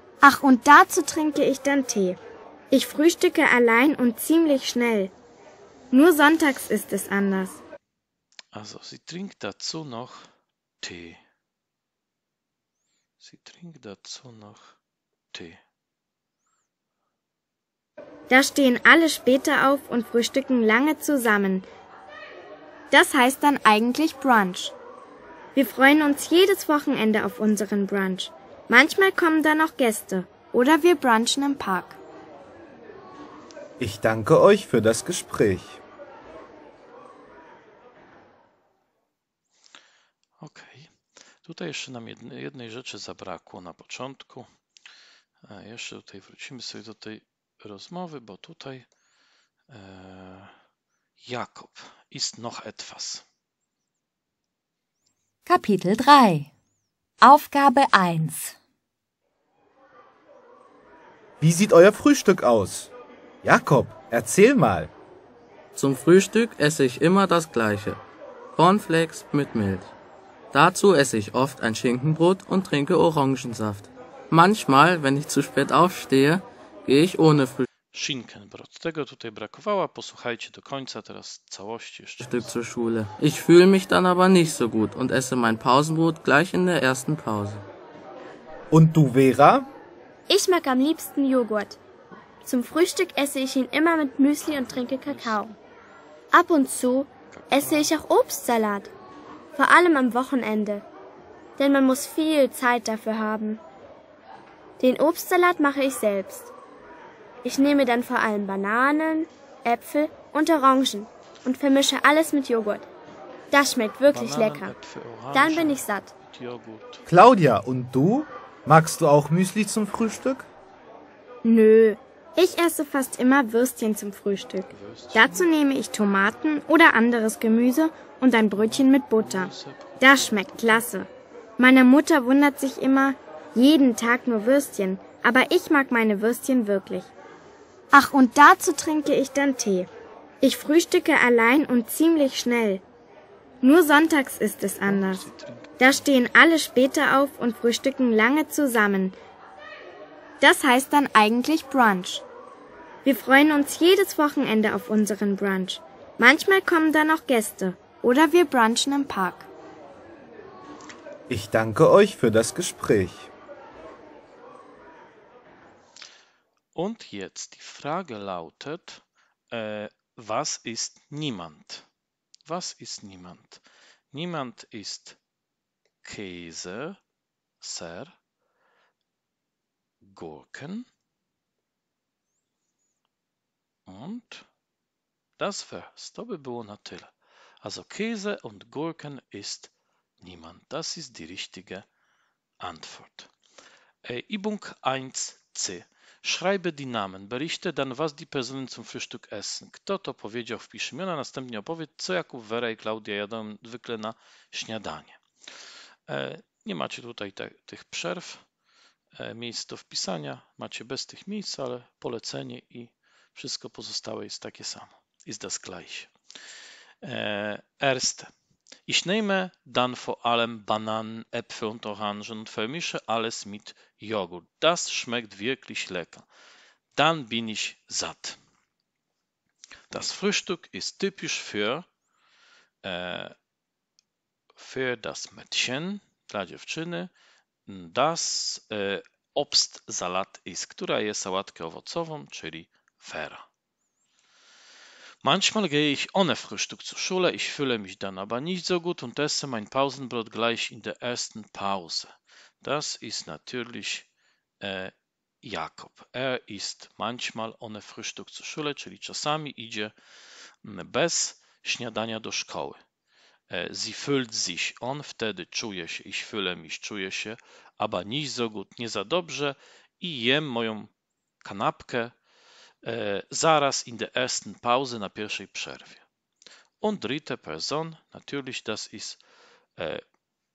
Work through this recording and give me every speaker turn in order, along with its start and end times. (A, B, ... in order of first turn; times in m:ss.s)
0:00.2-0:02.2 A
0:02.7-0:05.1 A
0:05.9-0:07.6 A
0:08.5-0:10.3 B
0:10.8-0:11.2 B
0:13.2-0:14.8 B
0:15.3-0:15.6 B
0:18.3-0:21.7 A
0:22.9-0:24.7 A
0:25.6-0:32.0 A
0:33.8-0:35.8 C
0:40.4-0:44.5 B
0:45.4-0:48.9 B
0:49.7-0:50.5 B
0:51.2-0:53.2 B
0:55.5-0:56.5 D
0:57.2-0:58.6 D
1:01.4-1:02.9 C
1:03.4-1:04.9 C
1:05.8-1:08.0 E
1:08.5-1:09.9 E
1:10.5-1:17.7 E
1:17.9-1:22.5 B
1:22.2-1:27.6 E
1:28.7-1:29.7 C
1:30.3-1:31.8 F
1:32.4-1:35.5 F
1:34.4-1:35.5 B
1:36.3-1:38.9 F
1:37.3-1:37.9 B
1:39.6-1:40.8 F
1:41.6-1:43.6 F
1:44.8-1:46.5 F
1:47.4-1:52.9 F
1:53.5-1:54.7 F
1:54.1-1:57.0 B
1:55.3-1:56.1 F
1:57.1-2:00.5 C
2:01.4-2:17.1 A
2:04.7-2:05.5 B
2:08.6-2:10.9 B
2:17.9-2:19.9 A
2:20.4-2:22.8 A
2:23.6-2:25.3 A
2:24.8-2:26.1 B
2:25.8-2:29.2 A
2:30.4-2:32.2 A
2:33.0-2:39.5 A
2:41.3-2:43.3 C
2:46.7-2:51.9 B
2:52.5-2:55.2 B
2:56.0-2:57.0 B
2:57.6-2:58.1 B
3:00.0-3:00.9 B
3:03.9-3:04.5 B
3:05.4-3:11.9 B
3:12.6-3:13.3 B
3:14.0-3:25.2 B
3:26.1-3:28.4 B
3:29.2-3:36.1 B
3:37.0-3:38.3 B
3:38.9-3:46.3 B
3:47.0-3:48.4 B
3:49.9-3:51.9 B
3:52.8-3:53.4 B
3:54.6-3:57.1 B
3:57.7-4:03.4 B
4:05.2-4:14.1 B
4:14.6-4:19.9 B
4:20.6-4:22.8 B
4:23.5-4:30.9 B
4:31.4-4:32.1 B
4:32.8-4:36.0 B
4:36.8-4:39.2 B
4:39.8-4:40.0 B